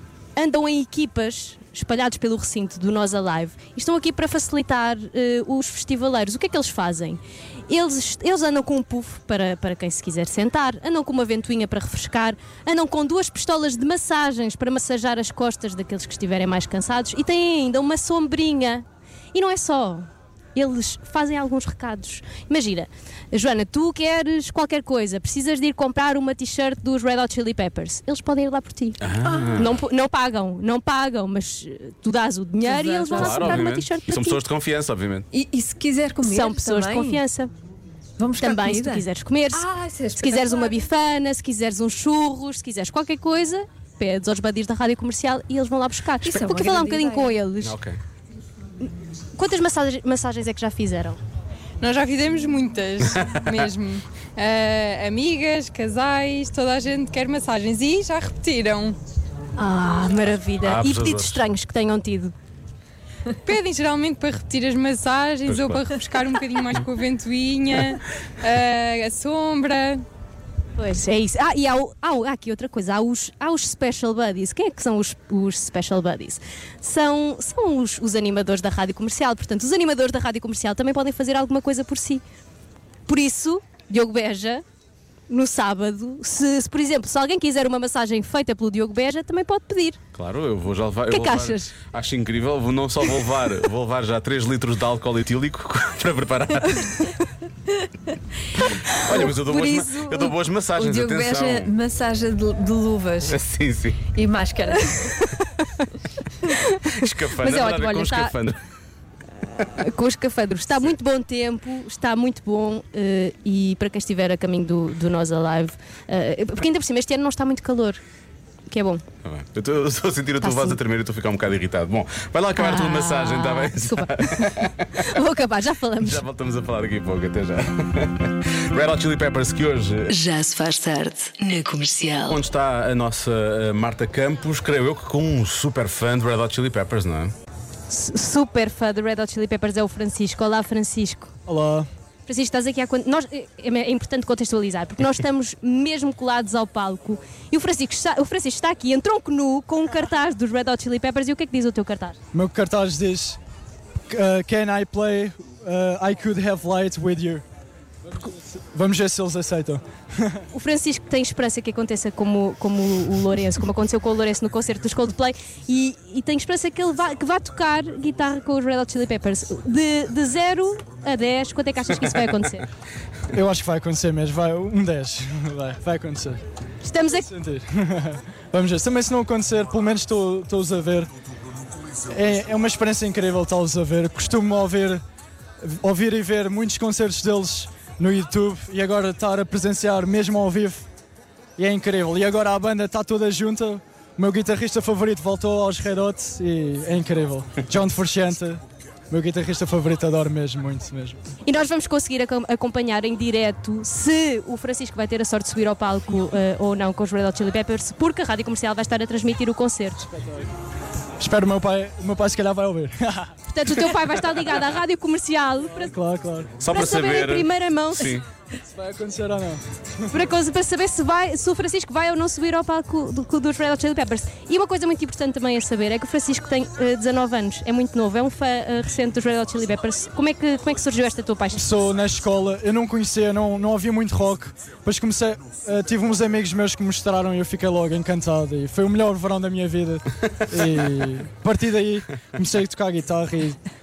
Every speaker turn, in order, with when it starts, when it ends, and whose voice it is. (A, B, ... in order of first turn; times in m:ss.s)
0:00.4-0:29.0 A
0:29.0-0:29.8 B
0:29.3-0:29.6 C
0:29.6-0:34.4 A
0:32.6-0:33.7 C
0:33.1-0:35.3 B
0:35.3-0:37.2 C
0:36.2-0:37.5 A
0:38.2-0:40.8 C
0:38.4-0:47.8 A
0:46.2-0:47.4 C
0:47.6-0:48.0 B
0:48.8-0:51.2 A
0:51.8-0:59.0 D
0:53.0-0:53.7 B
0:59.6-1:02.3 A
1:00.6-1:01.4 B
1:03.4-1:10.0 D
1:05.4-1:05.9 B
1:10.8-1:22.2 A
1:23.1-1:24.6 A
1:25.3-1:30.0 A
1:30.1-1:37.0 B
1:31.1-1:31.7 A
1:38.7-1:40.3 A
1:38.7-1:41.7 B
1:40.8-1:43.4 C
1:43.3-1:44.0 B
1:44.1-1:45.0 C
1:46.9-1:48.6 B
1:47.4-1:48.3 A
1:49.6-1:58.0 A
1:58.7-1:59.0 A
1:59.2-2:04.9 B
2:00.4-2:00.8 A
2:02.6-2:06.2 A
2:06.0-2:10.2 B
2:10.1-2:12.4 E
2:12.3-2:17.3 B
2:17.9-2:21.3 A
2:21.5-2:21.9 F
2:22.2-2:32.2 A
2:32.3-2:33.4 F
2:34.1-2:37.4 F
2:38.7-2:40.3 F
2:40.5-2:52.7 A
2:53.3-2:56.4 F
2:56.8-2:57.3 A
2:57.3-3:01.1 F
3:02.1-3:05.0 F
3:05.6-3:10.8 F
3:11.6-3:21.2 F
3:21.4-3:30.0 A
3:31.2-3:33.3 F
3:33.5-3:35.9 A
3:35.7-3:36.5 F
3:36.6-3:38.2 B
3:36.7-3:38.2 A
3:38.8-3:39.6 F
3:40.1-3:51.8 A
3:51.6-4:03.6 F